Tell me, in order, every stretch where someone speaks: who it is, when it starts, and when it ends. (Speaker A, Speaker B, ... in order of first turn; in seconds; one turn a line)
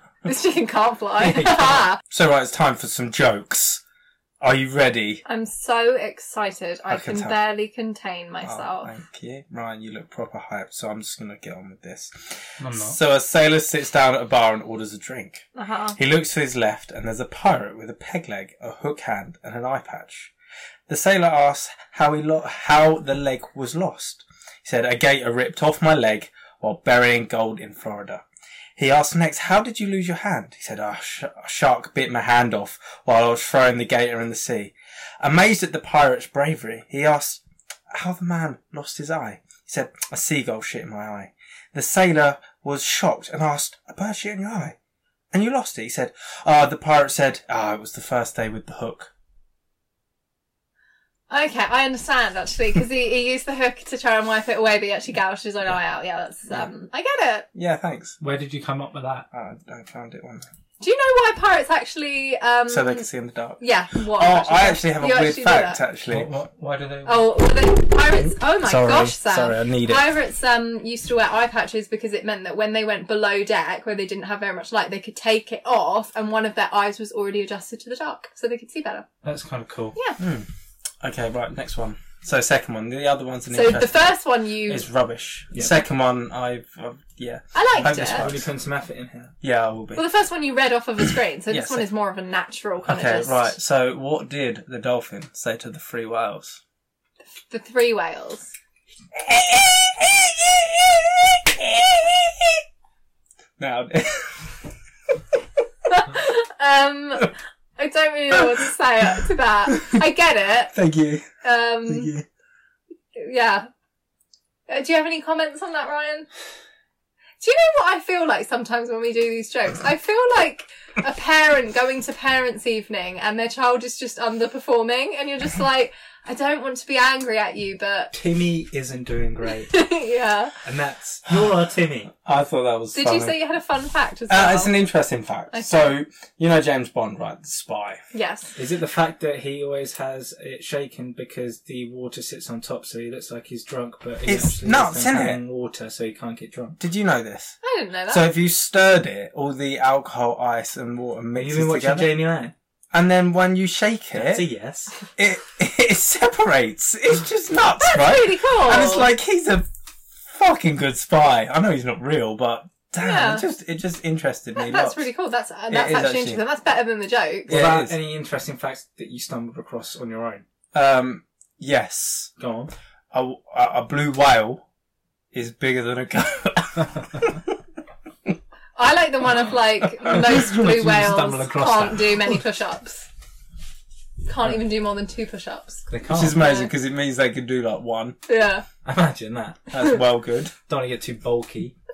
Speaker A: 0.2-2.0
Speaker B: 1.2-1.9
Speaker C: 2.1-3.8
Speaker C: 4.4-5.2
Speaker A: 5.2-8.9
Speaker C: 6.9-7.3
Speaker C: 8.4-15.4
Speaker B: 12.6-12.9
Speaker A: 15.5-16.0
Speaker C: 15.9-20.3
Speaker C: 20.9-28.2
Speaker C: 28.8-44.8
Speaker C: 45.3-49.1
Speaker A: 51.3-57.5
Speaker C: 57.5-58.2
Speaker B: 58.2-59.3
Speaker C: 59.3-60.5
Speaker A: 60.8-63.1
Speaker C: 62.7-66.3
Speaker A: 63.6-65.8
Speaker B: 66.1-67.4
Speaker A: 67.0-79.0
Speaker C: 68.2-70.1
Speaker B: 79.2-80.0
Speaker C: 80.2-80.5
Speaker C: 81.0-88.5
Speaker A: 83.5-84.8
Speaker B: 85.5-85.8
Speaker A: 87.5-88.3
Speaker B: 88.1-89.3
Speaker C: 89.4-90.0
Speaker A: 89.9-93.5
Speaker C: 91.5-91.9
Speaker C: 92.8-96.6
Speaker A: 97.5-98.5
Speaker C: 99.2-102.5
Speaker C: 103.6-104.6
Speaker A: 105.9-110.7
Speaker C: 109.7-110.0
Speaker C: 110.7-111.3
Speaker A: 111.4-112.1
Speaker C: 111.9-112.2
Speaker A: 113.1-113.7
Speaker A: 114.7-116.3
Speaker A: 117.4-128.1
Speaker B: 128.1-129.7
Speaker A: 129.6-130.5
Speaker B: 130.6-132.1
Speaker C: 132.2-133.3
Speaker A: 132.9-134.7
Speaker C: 134.3-138.0
Speaker A: 135.5-135.8
Speaker A: 138.1-138.5
Speaker B: 138.6-146.8
Speaker C: 144.2-145.4
Speaker C: 146.8-147.6
Speaker A: 147.6-148.3
Speaker C: 148.1-152.2
Speaker B: 151.3-152.5
Speaker C: 152.9-154.5
Speaker B: 154.1-154.9
Speaker C: 155.2-159.7
Speaker A: 157.8-159.1
Speaker C: 160.2-165.1
Speaker A: 163.0-163.4
Speaker A: 164.5-167.5
Speaker C: 165.7-166.4
Speaker B: 167.5-170.4
Speaker C: 167.5-168.0
Speaker C: 170.7-172.3
Speaker B: 172.4-172.7
Speaker C: 173.1-174.6
Speaker C: 175.3-177.4
Speaker A: 178.8-183.1
Speaker B: 180.4-182.4
Speaker A: 184.2-186.7
Speaker B: 185.9-186.4
Speaker C: 186.1-188.2
Speaker A: 188.3-188.7
Speaker B: 188.8-189.7
Speaker C: 189.7-190.5
Speaker B: 190.7-191.7